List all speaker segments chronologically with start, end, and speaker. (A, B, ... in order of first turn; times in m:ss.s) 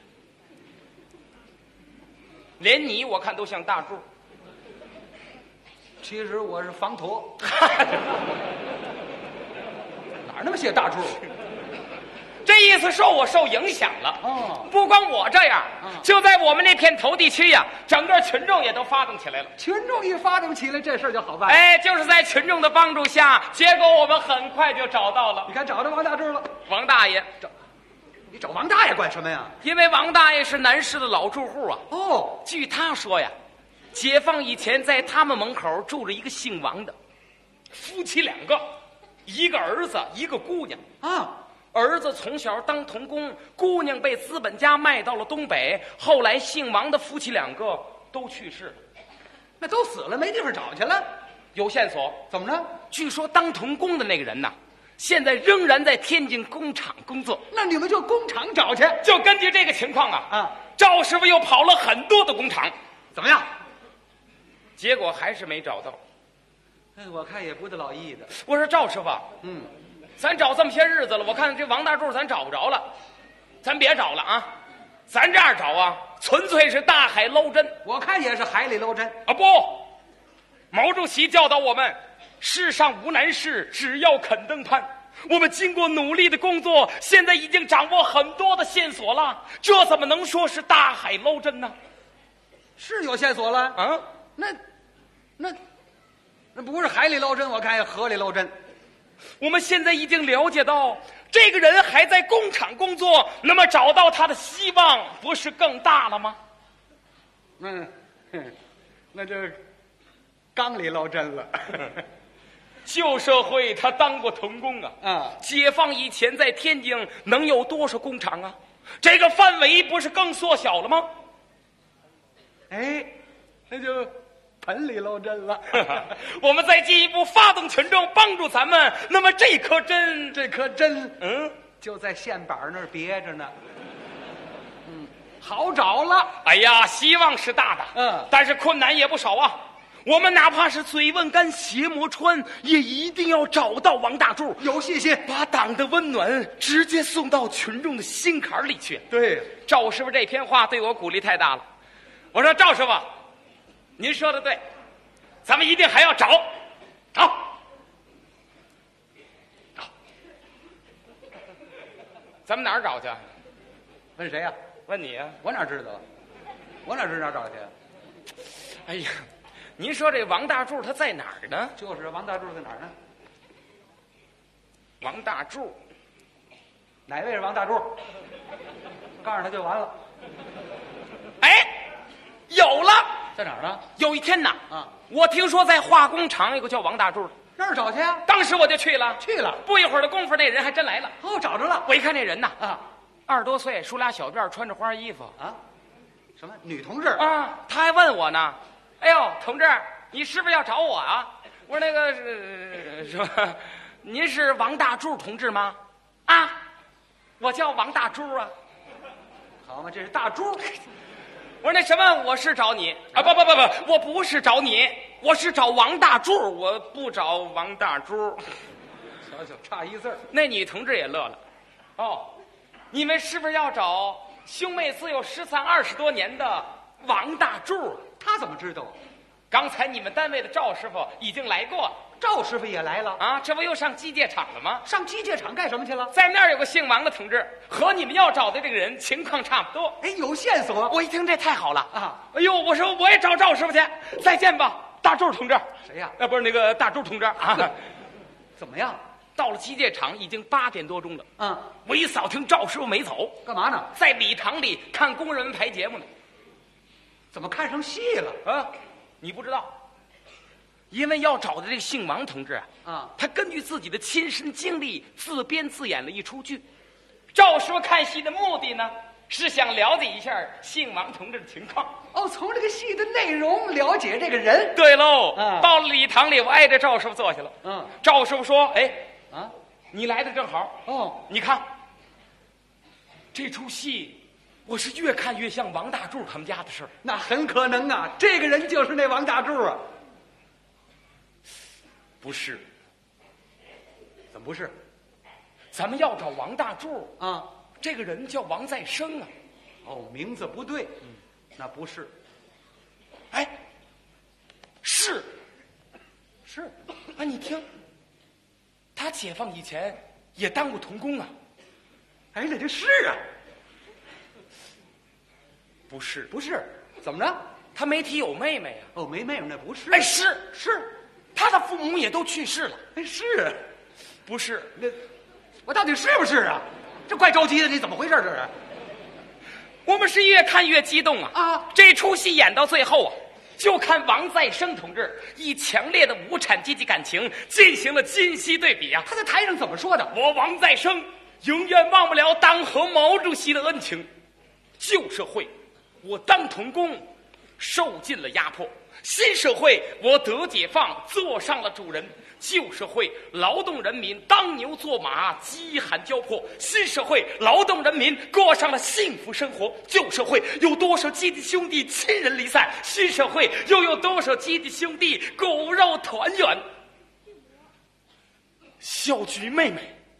0:02.6-0:04.0 A
0:06.0-0:07.4 B
0:07.4-0:08.1 A
0:10.2-0:11.2 B
0:12.4-0:19.5 A
0:14.2-0:14.7 B
0:15.8-0:16.1 B
0:19.6-0:21.6 B
0:21.5-0:25.5 A
0:25.5-0:26.6 B
0:26.6-0:27.3 A
0:28.3-0:29.6 B
0:29.6-0:31.8 A
0:31.9-0:32.4 B
0:32.4-0:33.3 A
0:33.9-0:36.9 A
0:37.7-0:38.7 A
0:39.2-0:40.8 A
0:41.0-0:41.4 B
0:41.7-0:48.8 A
0:49.6-0:51.1 B
0:51.5-0:52.2 A
0:52.3-0:52.7 B
0:52.9-0:57.4 A
0:57.5-0:59.0 B
0:59.0-1:02.7 A
1:00.3-1:00.6 B
1:03.1-1:03.5 B
1:04.8-1:06.0 A
1:07.0-1:08.3 B
1:08.3-1:09.2 A
1:09.4-1:09.7 B
1:10.2-1:12.9 A
1:13.6-1:14.5 A
1:15.1-1:17.8 A
1:17.8-1:19.2 B
1:19.2-1:19.9 A
1:20.7-1:31.7 A
1:32.8-1:33.8 B
1:33.7-1:34.0 A
1:36.5-1:38.5 B
1:39.4-1:46.4 A
1:47.6-1:48.5 B
1:49.1-1:49.6 B
1:50.5-1:52.0 B
1:52.8-2:01.1 A
1:55.0-1:55.4 B
2:02.7-2:03.2 B
2:03.7-2:06.1 B
2:05.7-2:10.4 A
2:10.3-2:11.2 B
2:11.2-2:11.6 A
2:11.8-2:13.5 B
2:14.8-2:16.3 B
2:16.4-2:24.7 A
2:17.9-2:18.3 B
2:24.6-2:25.2 B
2:25.2-2:29.0 A
2:29.1-2:29.5 B
2:29.6-2:31.6 A
2:32.3-2:33.1 A
2:34.0-2:34.6 A
2:35.4-2:36.5 A
2:42.5-2:43.2 A
2:44.2-2:44.5 B
2:44.9-2:45.4 A
2:45.4-2:46.0 B
2:46.8-2:47.7 B
2:48.7-2:51.7 A
2:51.8-2:52.9 B
2:55.0-2:55.8 A
2:57.1-2:58.0 B
2:59.2-2:59.9 B
3:01.4-3:01.8 A
3:02.5-3:03.2 A
3:03.4-3:03.8 B
3:04.0-3:07.3 A
3:07.6-3:08.2 B
3:08.2-3:11.2 A
3:09.2-3:09.6 B
3:11.2-3:11.9 B
3:11.8-3:12.6 A
3:13.3-3:15.3 A
3:16.4-3:17.3 B
3:17.2-3:26.6 A
3:27.4-3:28.5 A
3:29.6-3:30.8 B
3:31.6-3:38.5 A
3:39.2-3:40.2 B
3:40.3-3:41.4 A
3:42.0-3:42.3 A
3:42.9-3:48.0 A
3:48.2-3:49.0 B
3:49.5-3:52.0 A
3:52.2-3:53.2 B
3:53.2-3:54.8 A
3:54.8-3:56.1 B
3:56.1-4:00.0 A
4:00.0-4:01.0 B
4:00.9-4:07.8 A
4:01.9-4:02.2 B
4:05.8-4:06.2 B
4:07.4-4:07.7 B
4:08.6-4:09.0 B
4:09.4-4:11.2 A
4:11.4-4:11.7 B
4:11.8-4:13.4 A
4:13.4-4:13.9 B
4:13.9-4:16.1 A
4:17.3-4:18.4 B
4:18.4-4:19.7 A
4:20.9-4:26.6 A
4:22.8-4:23.1 B
4:27.3-4:32.0 A
4:32.1-4:34.8 B
4:34.7-4:39.1 A
4:35.3-4:35.7 B
4:37.6-4:37.9 B
4:39.9-4:41.6 A
4:40.8-4:41.2 B
4:43.3-4:46.9 A
4:47.0-4:49.8 B
4:52.2-4:52.6 A
4:54.3-4:54.7 B
4:55.7-4:57.2 A
4:57.2-4:57.5 B
4:57.8-4:59.3 A
4:59.8-5:02.1 B
5:04.8-5:05.3 A
5:06.4-5:06.7 B
5:07.1-5:07.6 A
5:09.0-5:11.3 A
5:12.3-5:13.2 B
5:15.9-5:16.3 A
5:16.3-5:17.4 B
5:17.7-5:18.9 A
5:18.9-5:20.9 B
5:19.9-5:20.5 A
5:21.3-5:22.8 A
5:22.9-5:23.6 B
5:24.2-5:24.7 A
5:25.6-5:28.5 B
5:29.8-5:39.1 A
5:31.3-5:31.7 B
5:39.0-5:40.1 B
5:40.1-5:44.1 A
5:44.8-5:47.1 A
5:47.6-6:06.6 A
6:08.8-6:09.9 A